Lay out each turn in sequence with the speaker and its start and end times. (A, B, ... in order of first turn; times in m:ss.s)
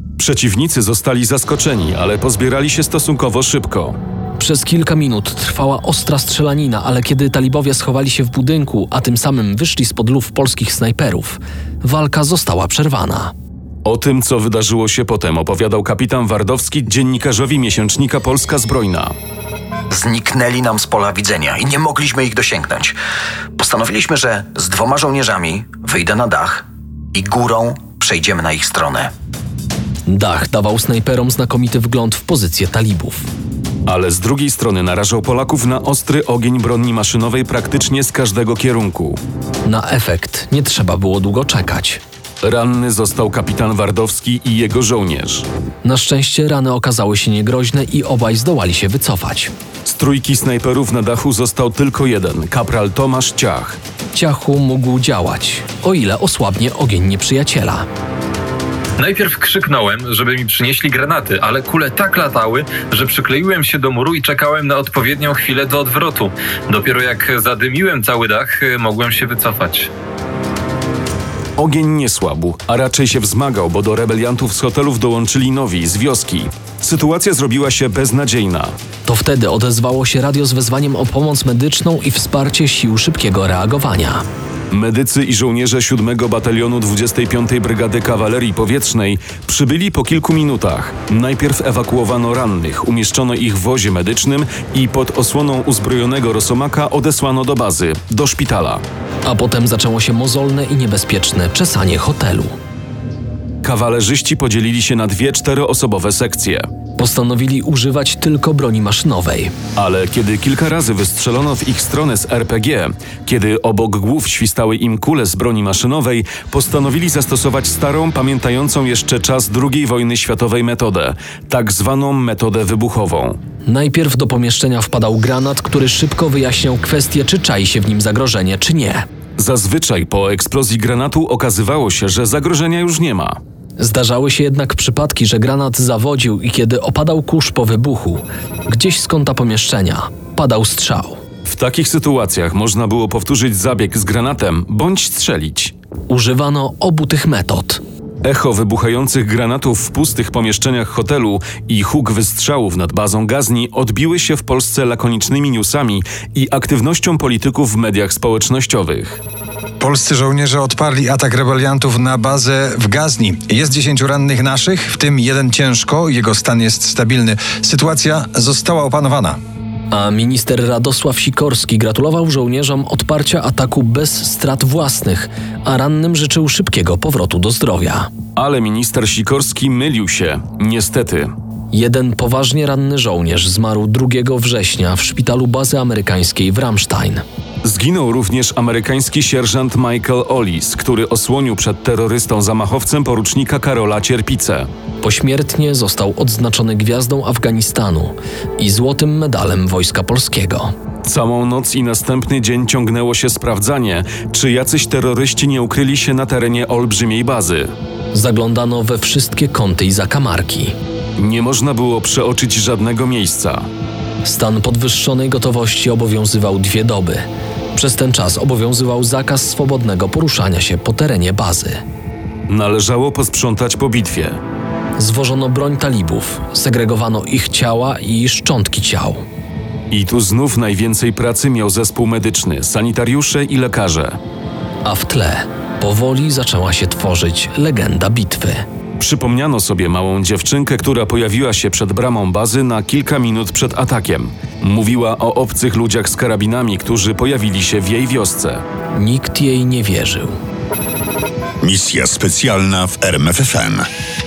0:00.2-0:04.0 A
0:04.4-0:13.3 B
0:13.8-0:19.2 A
0:19.9-0:23.0 C
0:23.6-0:29.1 C
0:30.1-0:33.3 B
0:33.9-0:39.2 A
0:39.6-0:42.0 B
0:42.4-0:45.5 A
0:45.8-0:49.5 B
0:49.8-0:53.8 A
0:54.1-0:57.9 B
0:59.0-1:09.9 D
1:11.6-1:18.8 A
1:19.1-1:24.2 B
1:24.7-1:38.8 A
1:39.2-1:42.5 B
1:43.6-1:46.7 A
1:47.0-1:49.5 B
1:49.8-2:03.4 A
2:03.6-2:09.1 B
2:09.4-2:13.4 A
2:13.8-2:21.2 B
2:21.4-2:25.7 A
2:26.1-2:27.8 B
2:28.2-2:39.2 A
2:39.8-2:49.4 E
2:49.9-2:58.1 B
2:58.4-3:01.3 A
3:01.7-3:07.2 B
3:07.6-3:14.7 A
3:15.0-3:20.7 B
3:21.0-3:27.7 A
3:28.1-3:30.8 B
3:31.2-3:33.7 A
3:34.2-3:41.8 B
3:42.5-3:44.4 A
3:45.0-3:49.2 B
3:49.9-3:54.2 A
3:54.8-3:58.6 B
3:59.0-4:08.6 A
4:09.0-4:10.4 B
4:11.6-4:13.9 F